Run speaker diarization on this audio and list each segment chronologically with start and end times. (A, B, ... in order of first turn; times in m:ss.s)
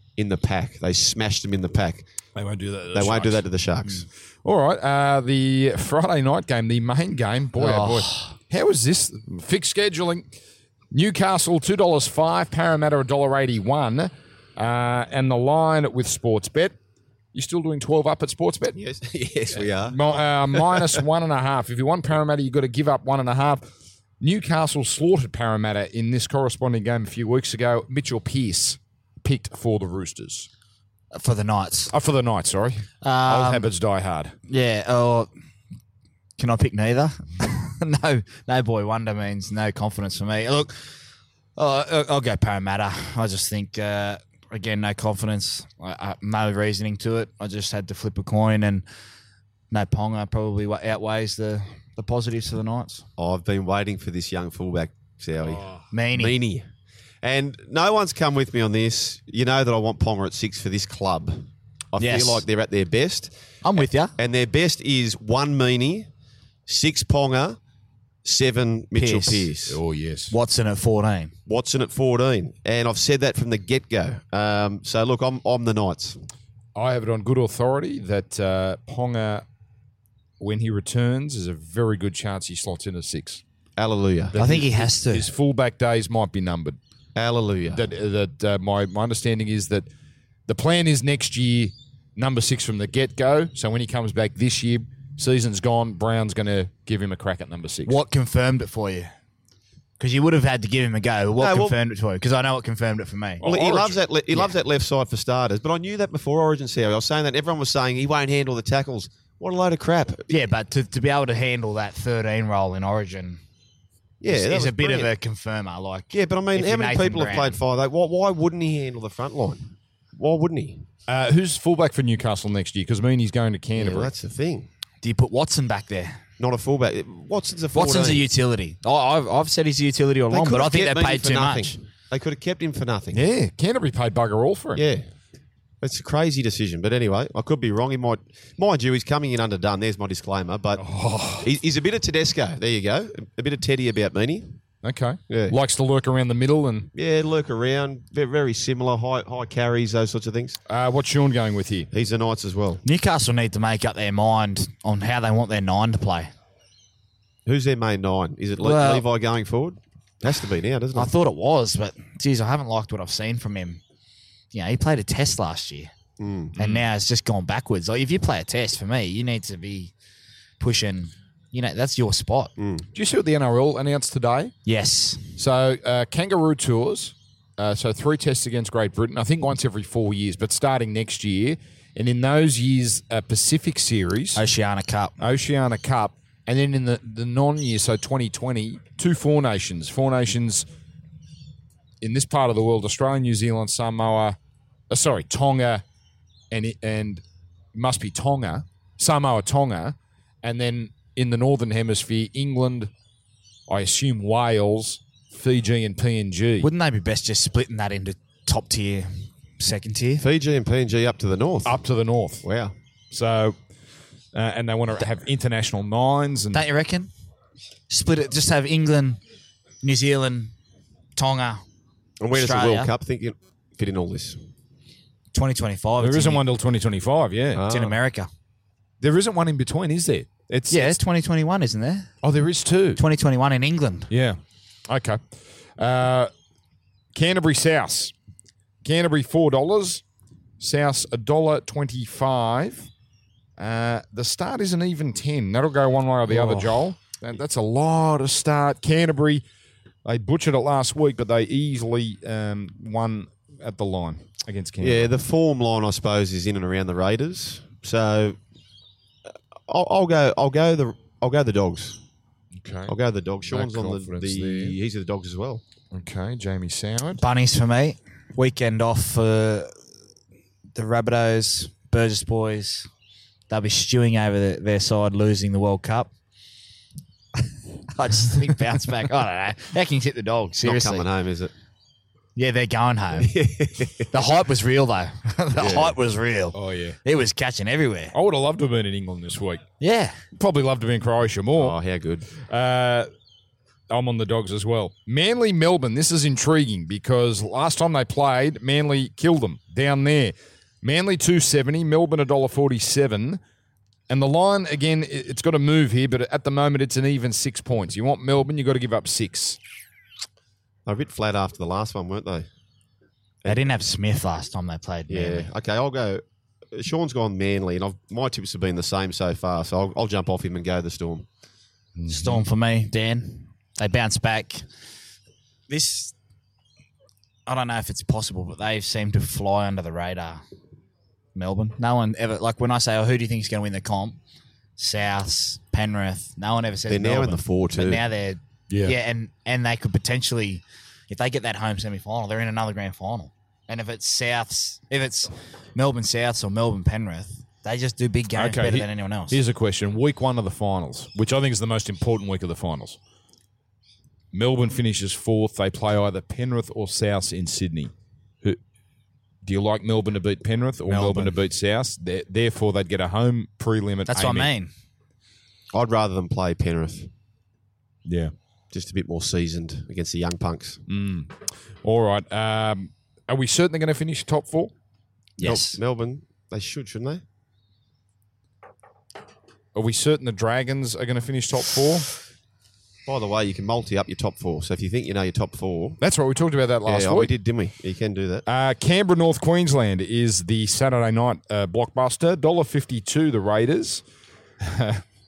0:00.2-0:02.0 A
0:02.4-0:03.4 B
0:02.9-0:04.1 A
0:04.4-0:10.3 B
0:07.6-0:08.3 C
0:10.9-0:16.7 B
0:17.3-0:18.8 B
0:18.8-0:21.0 A
0:19.5-0:23.6 B
0:24.2-0:30.5 B
0:31.1-0:31.9 C
0:31.9-0:34.3 B
0:33.0-0:33.6 C
0:34.5-0:35.3 C
0:36.4-0:40.8 C
0:41.6-0:48.8 C
0:49.7-0:53.0 C
0:53.2-0:56.6 A
0:55.5-0:55.8 B
0:55.9-0:56.3 C
0:57.2-1:03.3 A
1:02.0-1:02.4 C
1:03.6-1:04.1 C
1:04.1-1:06.1 A
1:06.7-1:07.6 A
1:08.2-1:09.8 A
1:09.0-1:09.5 C
1:09.7-1:10.3 B
1:10.3-1:11.3 C
1:11.5-1:16.2 A
1:16.7-1:19.4 B
1:20.4-1:23.4 B
1:23.8-1:24.4 A
1:24.3-1:26.8 B
1:24.4-1:25.2 C
1:27.1-1:27.8 A
1:27.7-1:29.9 B
1:30.5-1:38.0 B
1:37.8-1:39.1 C
1:40.0-1:43.4 C
1:41.4-1:41.8 A
1:43.4-1:44.0 B
1:43.4-1:50.3 A
1:50.3-1:53.4 C
1:54.2-1:55.1 A
1:54.3-1:57.6 C
1:56.1-2:00.8 A
2:01.1-2:04.1 B
2:03.8-2:04.7 A
2:05.0-2:06.2 C
2:06.4-2:08.2 A
2:07.7-2:11.8 C
2:10.3-2:13.2 A
2:13.1-2:14.8 B
2:14.8-2:15.0 A
2:15.8-2:20.8 A
2:20.8-2:21.5 B
2:21.4-2:24.5 A
2:24.8-2:26.9 B
2:25.3-2:25.6 A
2:26.9-2:30.6 A
2:30.7-2:31.9 B
2:31.9-2:32.8 A
2:32.8-2:36.3 C
2:37.4-2:41.1 A
2:38.6-2:39.0 C
2:40.9-2:43.8 C
2:44.5-2:45.9 C
2:46.2-2:46.6 A
2:46.6-2:46.8 B
2:46.6-2:49.9 C
2:50.6-2:52.5 C
2:52.6-2:52.9 A
2:52.9-2:54.5 B
2:54.6-2:55.3 C
2:55.4-3:04.4 B
3:04.3-3:05.1 C
3:05.2-3:10.6 B
3:12.0-3:14.4 B
3:14.9-3:15.8 B
3:16.5-3:17.2 B
3:17.7-3:22.9 B
3:23.7-3:26.7 B
3:26.6-3:30.2 C
3:30.2-3:31.8 A
3:31.6-3:32.4 B
3:32.4-3:32.7 A
3:33.1-3:33.6 B
3:34.3-3:36.7 B
3:36.5-3:37.1 C
3:37.9-3:39.2 C
3:39.8-3:40.5 C
3:41.2-3:41.6 C
3:42.2-3:44.4 A
3:42.3-3:42.9 C
3:45.3-3:46.4 C
3:46.0-3:47.6 B
3:47.5-3:48.0 A
3:47.7-3:48.3 C
3:49.0-3:51.0 B
3:50.7-3:52.1 C
3:52.2-3:53.0 B
3:53.0-3:54.1 C
3:54.1-3:55.2 B
3:55.8-3:56.3 B
3:57.1-3:58.1 B
3:58.8-4:00.0 B
4:00.6-4:02.9 B
4:03.6-4:09.4 B
4:06.3-4:06.7 A
4:10.0-4:15.1 B
4:14.8-4:18.4 A
4:19.7-4:22.0 A
4:22.5-4:22.9 B
4:22.9-4:25.6 A
4:23.5-4:24.8 B
4:25.9-4:27.2 B
4:27.2-4:29.7 C
4:30.7-4:32.9 C
4:33.5-4:36.1 C
4:37.9-4:41.0 C
4:40.6-4:41.5 A
4:42.4-4:43.3 C
4:43.2-4:44.1 A
4:44.1-4:48.1 C
4:45.6-4:45.9 A
4:46.5-4:47.0 B
4:48.1-4:49.6 B
4:49.8-4:50.2 C
4:50.4-4:51.8 B
4:51.6-4:52.3 A
4:52.4-4:53.1 B
4:53.9-5:03.4 B
5:04.1-5:09.6 B
5:10.9-5:12.5 A
5:13.4-5:15.5 C
5:15.1-5:16.2 A
5:16.7-5:21.2 A
5:22.0-5:22.4 B
5:22.1-5:24.6 C
5:25.7-5:26.1 C
5:27.5-5:30.4 C
5:31.3-5:34.2 C
5:34.8-5:49.4 C
5:36.9-5:38.0 A
5:38.7-5:38.9 B
5:48.4-5:53.0 B
5:54.3-5:57.9 B
5:59.4-6:04.5 B
6:00.9-6:01.3 C
6:04.1-6:04.7 C
6:05.7-6:07.1 A
6:08.0-6:08.3 B
6:08.7-6:10.8 A
6:10.9-6:14.7 B
6:15.4-6:15.8 C
6:15.4-6:17.2 A
6:19.7-6:22.0 B
6:23.0-6:26.0 A
6:26.0-6:27.3 B
6:26.8-6:28.4 A
6:28.4-6:34.0 B
6:34.6-6:35.0 B